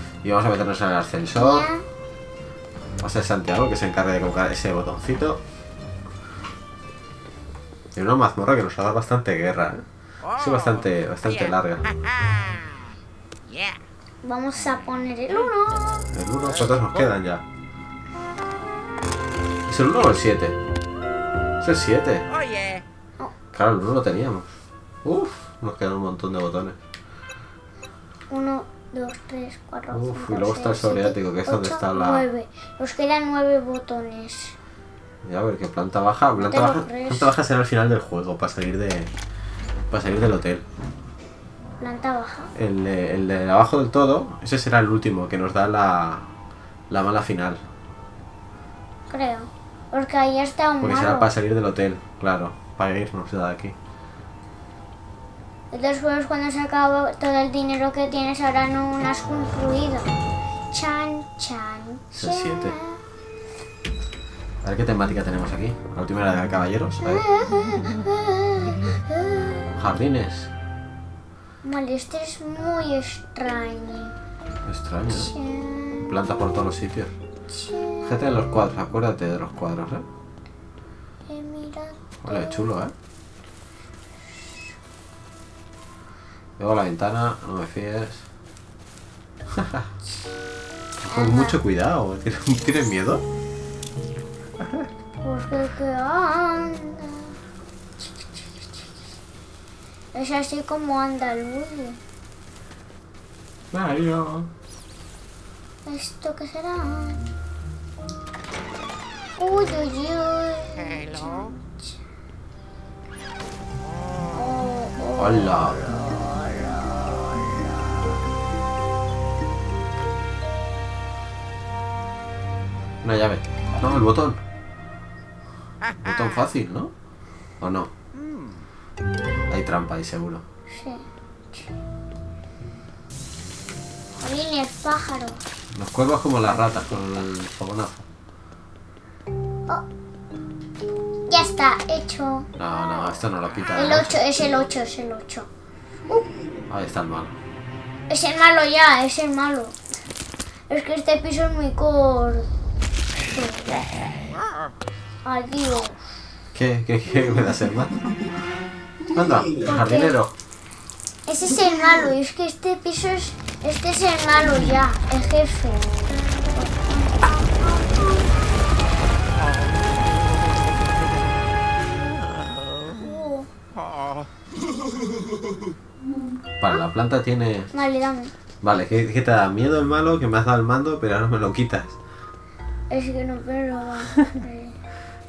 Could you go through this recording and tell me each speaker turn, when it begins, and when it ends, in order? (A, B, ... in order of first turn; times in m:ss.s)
0:00.2-0:01.7 A
0:01.4-0:01.9 B
0:03.0-0:05.4 A
0:07.9-0:11.8 A
0:14.2-0:15.9 B
0:16.1-0:17.4 A
0:19.7-0:20.6 A
0:21.6-0:22.3 A
0:23.5-0:24.5 A
0:25.0-0:26.8 A
0:28.3-0:34.6 B
0:29.9-0:32.2 A
0:35.2-0:39.1 A
0:36.4-0:37.3 B
0:39.8-0:40.6 A
0:41.8-0:42.5 B
0:42.6-0:46.3 A
0:46.9-0:47.6 A
0:49.1-0:51.3 B
0:50.8-0:53.8 A
0:55.7-1:00.1 B
1:00.7-1:03.0 B
1:02.1-1:02.8 A
1:04.6-1:07.2 A
1:07.0-1:09.8 B
1:09.8-1:10.5 A
1:11.6-1:14.2 B
1:14.7-1:15.3 A
1:15.1-1:16.1 B
1:16.1-1:17.1 A
1:17.5-1:18.3 B
1:18.1-1:20.0 A
1:21.3-1:22.7 B
1:22.2-1:22.9 A
1:26.6-1:28.2 A
1:29.5-1:29.9 A
1:31.0-1:33.2 A
1:31.1-1:31.6 B
1:35.2-1:37.4 B
1:38.0-1:38.5 B
1:40.1-1:42.0 B
1:43.7-1:44.5 A
1:45.8-1:47.3 B
1:49.4-1:51.9 B
1:54.3-1:58.0 B
1:55.2-1:55.9 A
2:03.0-2:04.4 A
2:06.0-2:06.9 A
2:07.6-2:07.9 A
2:09.5-2:10.4 A
2:10.7-2:11.7 B
2:14.2-2:15.4 B
2:15.7-2:18.0 A
2:21.3-2:22.5 B
2:22.6-2:24.2 A
2:23.7-2:25.5 B
2:26.7-2:27.4 A
2:28.1-2:30.0 B
2:30.7-2:32.5 B
2:33.3-2:33.7 B
2:35.2-2:36.1 B
2:36.6-2:37.9 A
2:39.1-2:40.3 A
2:39.6-2:40.2 B
2:41.3-2:47.6 B
2:52.9-2:53.5 B
2:56.6-2:57.7 A
2:57.7-2:58.3 B
2:58.6-3:01.9 A
3:02.9-3:04.8 B